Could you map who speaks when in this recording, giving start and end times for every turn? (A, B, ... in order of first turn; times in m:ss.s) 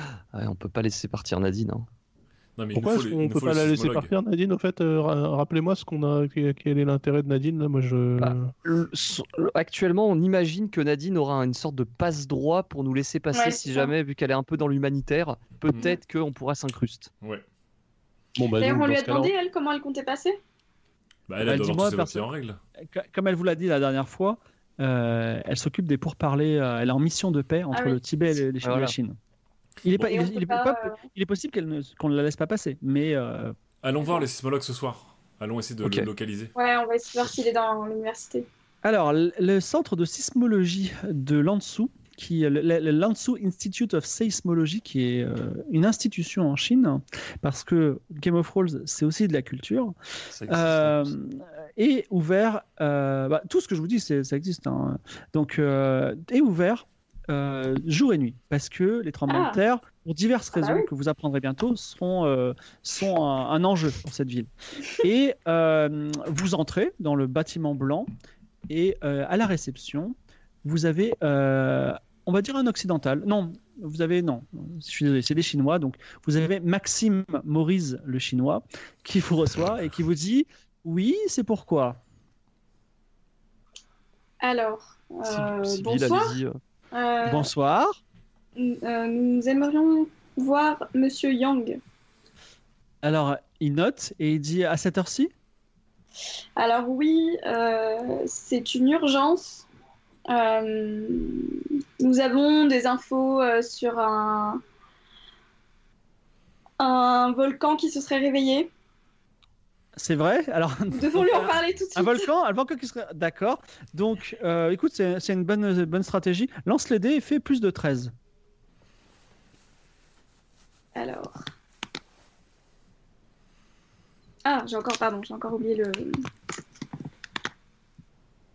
0:00.3-0:01.9 A
0:02.6-0:04.1 B
0:02.7-0:08.5 C
0:08.2-0:17.1 A
0:13.3-0:13.9 D
0:18.4-0:19.3 C
0:18.6-0:20.4 D
0:21.3-0:22.6 B
0:21.4-0:22.3 E
0:22.9-0:29.2 E
0:27.7-0:28.0 D
0:28.6-0:29.0 A
0:29.8-0:33.6 E
0:30.0-0:31.1 D
0:33.8-0:36.5 B
0:35.8-0:36.1 A
0:36.6-0:38.5 D
0:38.8-0:50.0 E
0:50.3-0:51.1 A
0:50.5-1:08.1 E
0:59.3-0:59.6 D
1:00.6-1:00.9 D
1:08.7-1:22.0 E
1:24.4-1:26.4 D
1:25.3-1:26.6 A
1:26.9-1:27.5 D
1:27.2-1:28.0 E
1:28.6-1:31.8 D
1:33.0-1:35.3 E
1:36.6-1:39.7 D
1:40.3-1:44.6 D
1:46.8-1:48.7 D
1:50.0-1:58.1 E
1:50.9-1:52.3 D
2:01.0-2:01.4 D
2:04.4-2:06.3 D